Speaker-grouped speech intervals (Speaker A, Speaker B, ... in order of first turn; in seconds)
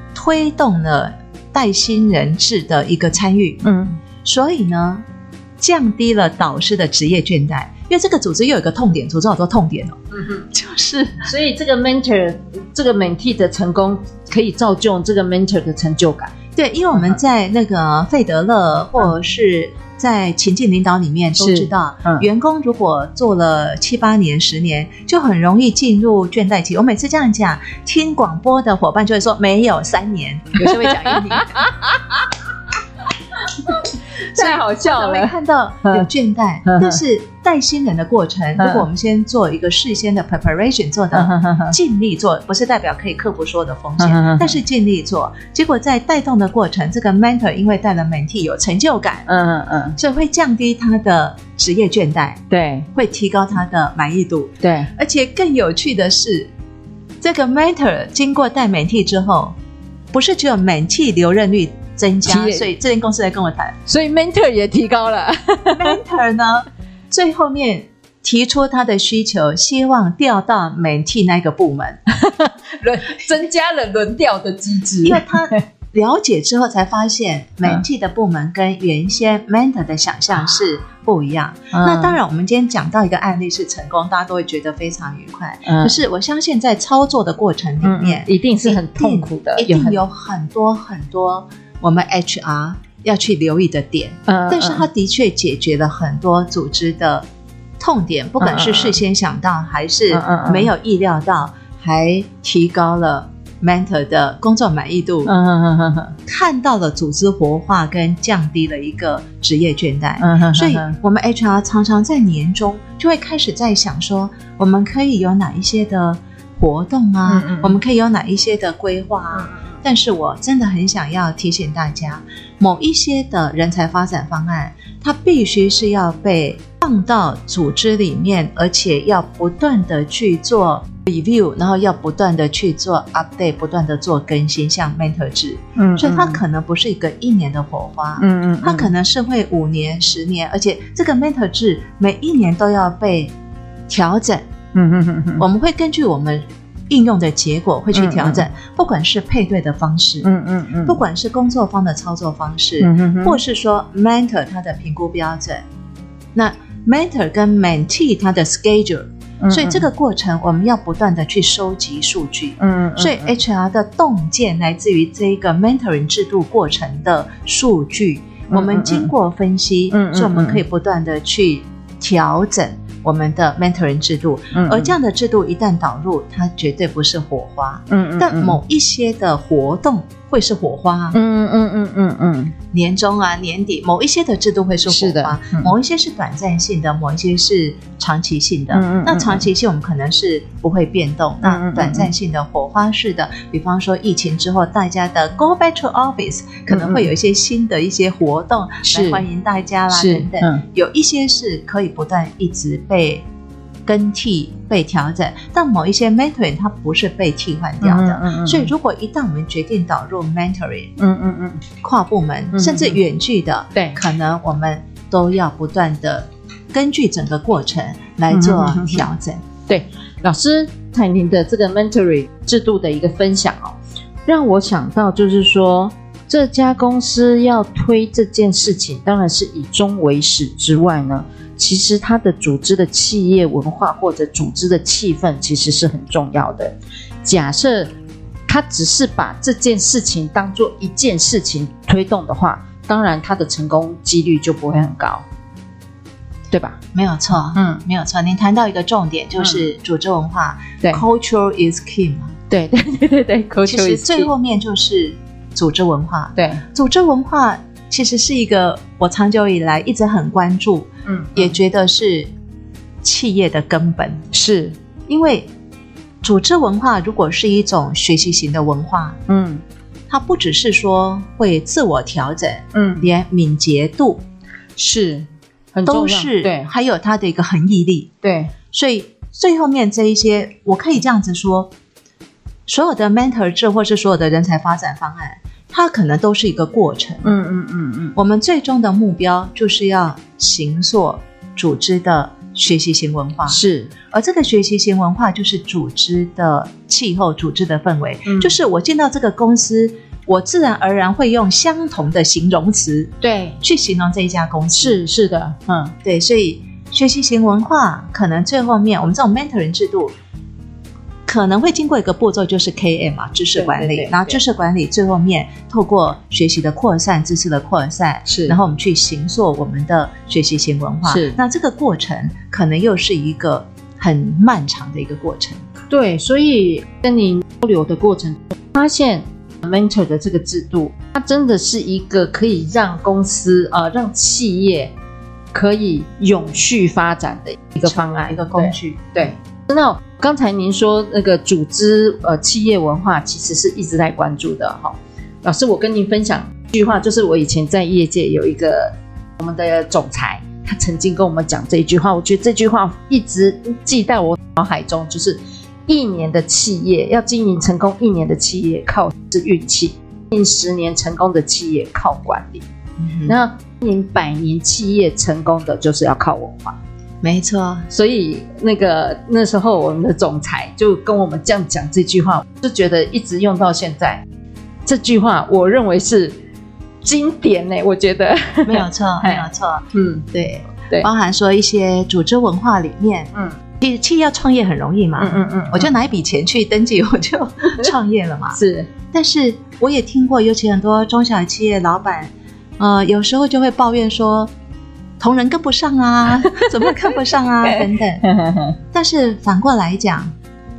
Speaker A: 0.1-3.7, 4.2-5.0, 5.6-10.0, 10.5-11.3, 16.6-31.7, 34.4-49.3, 50.0-52.4, 52.9-56.5, 57.2-59.5, 60.1-63.8, 65.7-72.0, 75.0-97.2, 97.8-105.3, 106.3-143.3, 143.9-144.5, 145.4-150.3, 150.8-155.6, 156.3-181.2, 182.7-203.2, 203.9-210.9, 211.8-219.4, 246.9-252.4, 253.7-262.3, 263.0-264.3, 265.1-265.5, 266.2-269.2, 270.1-274.2, 275.9-278.1, 278.7-281.7, 282.7-287.3, 288.2-293.6, 294.1-305.0, 306.0-310.1, 311.3-325.6, 337.9-339.4, 363.0-363.4, 367.2-367.9, 378.7-388.6, 389.1-394.5, 395.2-398.2, 398.9-400.3
Speaker B: 3.6-4.0, 10.1-10.5, 11.2-16.3, 21.4-22.2, 30.6-32.3, 33.5-35.3, 36.6-37.0, 38.6-38.8, 41.1-41.8, 44.0-44.6, 49.3-50.0, 52.5-52.9, 54.6-54.9, 62.3-62.7, 63.9-66.0, 72.1-75.6, 81.7-82.2, 85.7-86.0, 87.8-90.0, 94.3-94.9, 98.4-99.0, 100.1-100.7, 105.2-106.2, 110.2-111.0, 117.3-117.8, 119.3-119.7, 135.8-136.4, 138.2-138.9, 144.7-145.4, 147.9-148.5, 150.2-151.0, 152.8-153.4, 159.4-159.9, 162.6-163.3, 168.5-169.1, 169.9-170.6, 174.5-175.0, 177.9-178.6, 181.1-182.5, 184.9-185.7, 188.7-189.5, 191.4-192.1, 196.7-197.1, 198.9-199.2, 199.9-200.6, 207.8-208.7, 211.0-211.6, 212.5-213.0, 218.3-219.0, 219.7-237.9, 238.5-245.2, 246.5-246.8, 247.5-247.8, 249.4-249.7, 252.5-254.3, 256.4-256.6, 261.1-261.6, 264.3-264.8, 269.3-269.6, 272.7-273.1, 274.8-276.7, 278.2-278.5, 287.2-288.2, 293.5-293.9, 298.3-298.6, 303.2-303.6, 304.7-305.9, 313.6-314.4, 318.3-318.6, 321.1-321.4, 325.9-334.9, 335.5-362.6, 363.3-366.8, 367.9-374.2, 374.9-376.4, 377.0-380.3, 385.2-385.9, 388.5-388.9, 396.5-397.0, 397.6-398.8